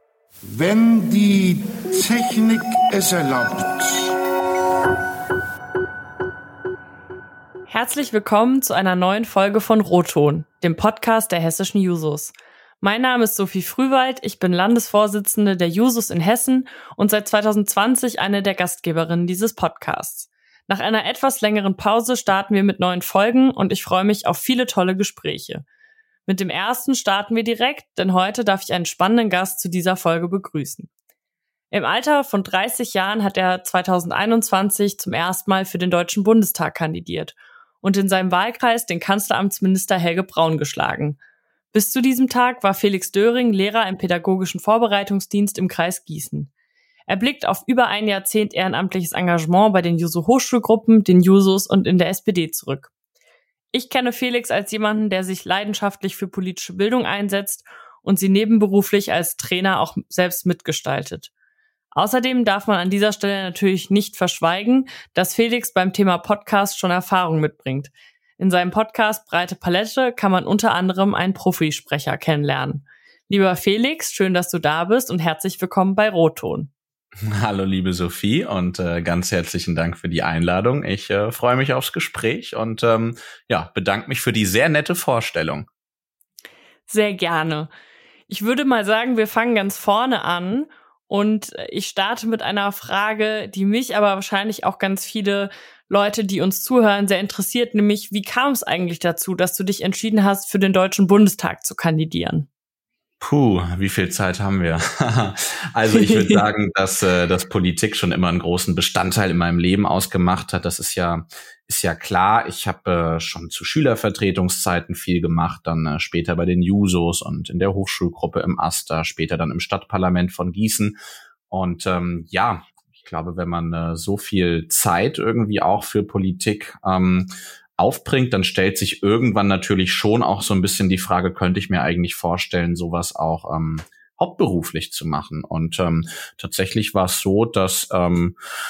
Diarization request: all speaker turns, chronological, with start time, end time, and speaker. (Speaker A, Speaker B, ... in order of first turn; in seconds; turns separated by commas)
Speaker A: 0.5-4.2, Speaker B: 7.7-25.6, Speaker B: 26.3-30.9, Speaker B: 31.7-41.2, Speaker B: 41.7-46.5, Speaker B: 47.1-52.9, Speaker B: 53.7-61.3, Speaker B: 61.9-76.7, Speaker C: 77.2-85.7, Speaker B: 86.9-87.7, Speaker B: 88.3-102.5, Speaker C: 103.2-121.0, Speaker B: 105.9-106.4, Speaker C: 121.5-138.4